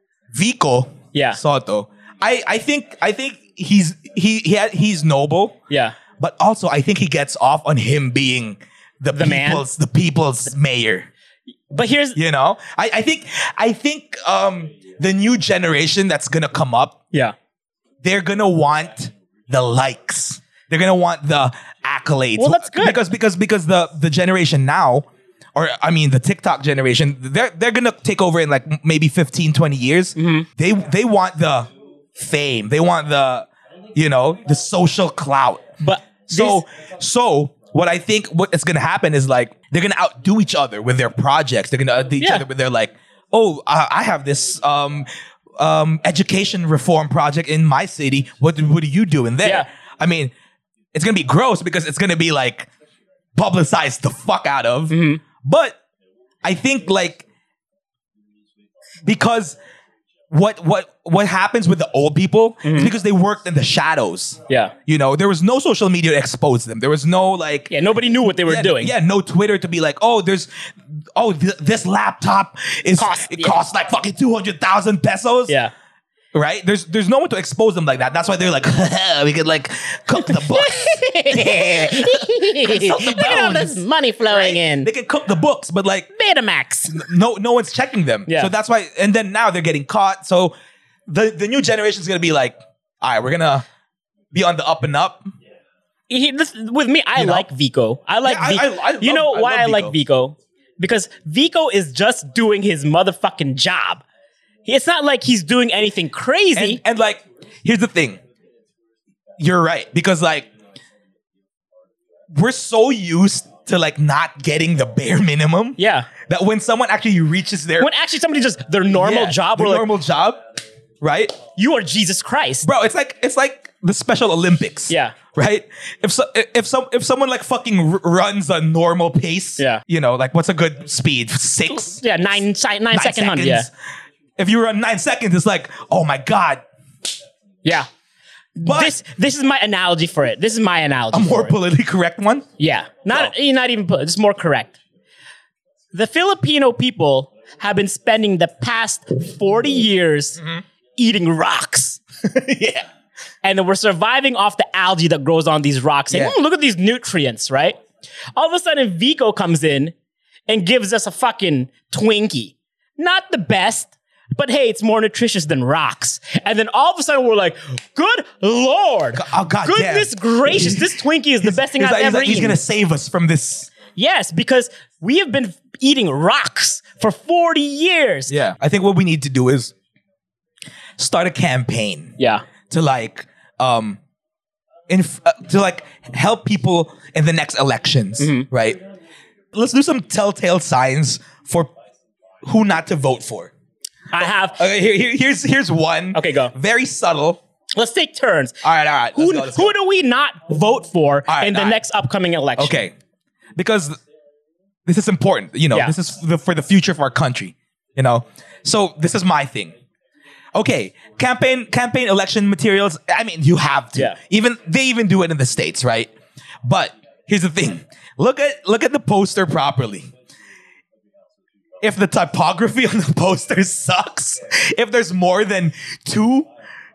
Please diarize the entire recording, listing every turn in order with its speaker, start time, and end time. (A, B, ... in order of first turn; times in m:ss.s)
0:00.3-0:05.6 A
0:01.1-0:01.4 B
0:05.7-0:06.0 B
0:06.2-0:11.1 A
0:09.1-0:09.7 B
0:11.7-0:12.2 B
0:12.2-0:17.0 A
0:18.0-0:35.7 A
0:22.4-0:23.0 B
0:30.2-0:30.5 B
0:35.8-0:36.6 B
0:36.3-0:50.3 A
0:42.2-0:42.5 B
0:49.4-0:49.7 B
0:50.9-0:52.7 A
0:53.4-0:55.8 A
0:54.9-0:55.2 B
0:56.4-0:57.2 A
0:59.0-0:59.6 A
1:00.3-1:07.7 A
1:02.6-1:02.9 B
1:04.5-1:04.7 B
1:07.7-1:08.9 B
1:08.3-1:10.5 A
1:11.2-1:15.6 A
1:13.0-1:13.6 B
1:15.5-1:15.7 B
1:16.3-1:26.1 A
1:20.2-1:24.9 B
1:26.1-1:27.1 B
1:26.9-1:30.6 A
1:31.1-1:33.7 A
1:34.3-1:35.3 A
1:36.1-1:44.0 B
1:37.2-1:37.5 A
1:38.2-1:40.0 A
1:44.7-1:46.8 B
1:46.6-1:48.2 A
1:49.4-1:50.5 A
1:52.3-1:57.9 A
1:55.8-1:56.1 B
1:57.8-1:59.9 B
1:58.9-2:00.4 A
2:01.0-2:01.4 A
2:01.6-2:02.7 B
2:02.6-2:12.0 A
2:04.9-2:05.2 B
2:09.6-2:09.8 B
2:11.9-2:13.7 B
2:12.9-2:13.7 A
2:14.4-2:16.6 A
2:17.6-2:17.9 B
2:18.6-2:21.5 B
2:18.6-2:19.0 A
2:21.1-2:22.5 A
2:22.6-2:24.8 B
2:25.9-2:30.4 B
2:31.0-2:32.0 B
2:32.2-2:32.9 A
2:33.4-2:37.8 B
2:36.1-2:36.4 A
2:38.3-2:39.9 B
2:40.5-2:52.6 B
2:49.1-2:53.7 A
2:54.0-2:58.3 B
2:58.3-2:59.7 A
3:01.0-3:02.2 A
3:02.2-3:02.5 B
3:02.7-3:04.0 A
3:04.9-3:08.8 A
3:08.2-3:08.5 B
3:09.5-3:11.7 A
3:12.4-3:13.5 A
3:14.1-3:14.6 B
3:14.6-3:17.4 A
3:16.1-3:16.5 B
3:17.7-3:18.6 B
3:18.6-3:19.7 A
3:19.2-3:22.8 B
3:21.3-3:21.8 A
3:22.6-3:22.9 A
3:23.6-3:24.0 A
3:24.9-3:29.8 A
3:30.5-3:36.1 A
3:36.6-3:40.1 A
3:41.8-3:46.5 A